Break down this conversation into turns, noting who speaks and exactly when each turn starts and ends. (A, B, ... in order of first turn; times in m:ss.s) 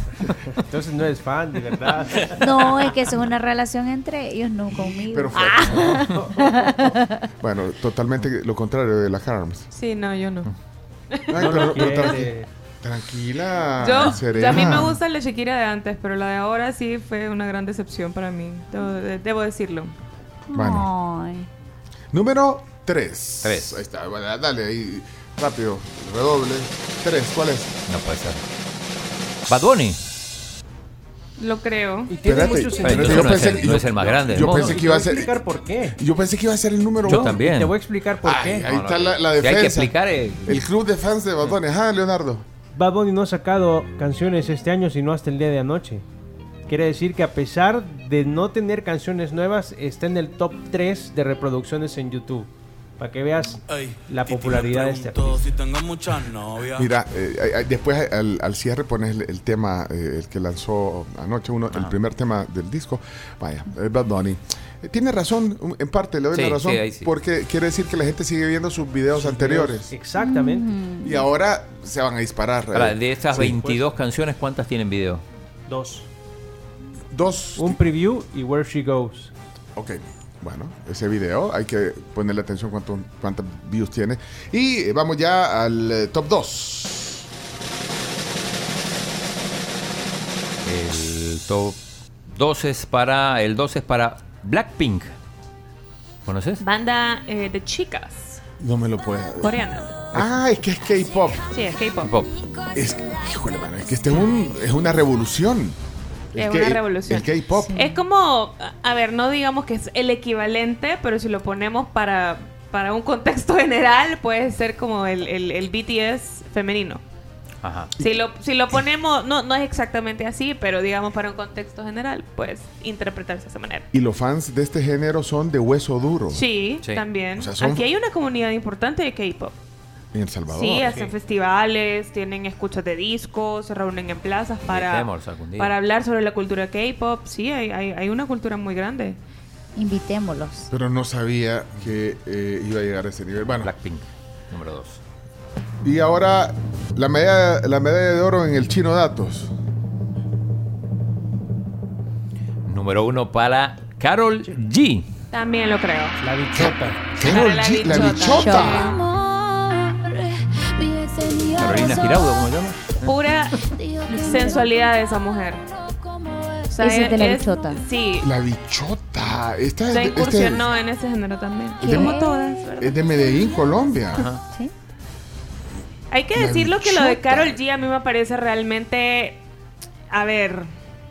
0:00.5-0:02.8 A
0:02.4-0:07.2 B
0:05.1-0:06.1 C
0:05.7-0:06.0 D
0:06.1-0:06.6 A
0:07.4-0:09.7 C
0:09.7-0:10.5 D
0:11.1-0:11.5 D
0:11.3-0:12.3 C
0:11.4-0:12.5 A
0:12.8-0:15.0 C
0:13.8-0:20.0 D
0:14.0-0:14.9 E
0:20.5-0:21.5 B
0:20.5-0:20.9 C
0:22.1-0:27.7 C
0:23.4-0:23.8 E
0:27.9-0:28.4 E
0:29.5-0:30.0 E
0:31.4-0:32.2 D
0:32.1-0:36.0 A
0:32.2-0:35.3 C
0:32.8-0:34.8 E
0:36.0-0:37.4 C
0:37.0-0:37.8 E
0:37.1-0:38.7 A
0:38.2-0:42.4 C
0:38.6-0:40.6 E
0:42.7-0:46.0 A
0:46.7-0:55.5 A
0:53.8-0:56.9 F
0:56.8-1:09.9 C
1:06.3-1:07.1 E
1:09.1-1:10.7 A
1:10.2-1:11.2 B
1:11.0-1:13.6 C
1:12.7-1:15.2 E
1:13.4-1:13.8 A
1:15.7-1:16.1 A
1:17.1-1:17.8 C
1:17.6-1:19.3 A
1:19.8-1:27.3 C
1:30.6-1:35.1 E
1:36.3-1:36.6 E
1:36.6-1:38.4 D
1:38.6-1:39.6 C
1:39.4-1:40.0 D
1:40.1-1:41.4 C
1:41.5-1:42.1 D
1:42.0-1:42.3 E
1:42.7-1:45.8 C
1:46.3-1:47.8 C
1:46.4-1:57.0 D
1:47.5-1:48.0 B
1:57.6-1:58.0 E
1:58.0-2:03.9 D
2:03.9-2:06.4 C
2:06.3-2:09.6 D
2:07.4-2:07.8 C
2:10.1-2:10.9 C
2:10.5-2:19.2 D
2:10.8-2:11.1 A
2:14.6-2:15.7 E
2:19.8-2:20.7 B
2:20.7-2:23.7 C
2:23.6-2:25.0 E
2:25.8-2:29.5 C
2:32.7-2:35.1 E
2:35.3-2:36.2 D
2:36.2-2:37.0 A
2:36.6-2:39.0 C
2:37.2-2:39.0 D
2:37.9-2:39.7 B
2:41.0-2:42.2 B
2:41.5-2:43.6 E
2:43.0-2:45.6 D
2:44.0-2:44.8 B
2:46.7-2:48.3 D
2:46.8-2:47.8 B
2:48.2-2:50.7 C
2:49.9-2:53.0 D
2:51.8-2:52.6 B
2:51.8-2:52.2 C
2:52.8-2:54.3 C
2:54.1-2:54.4 E
2:54.5-2:54.7 B
2:56.1-2:59.4 D
2:56.4-2:57.6 C
3:00.1-3:00.7 D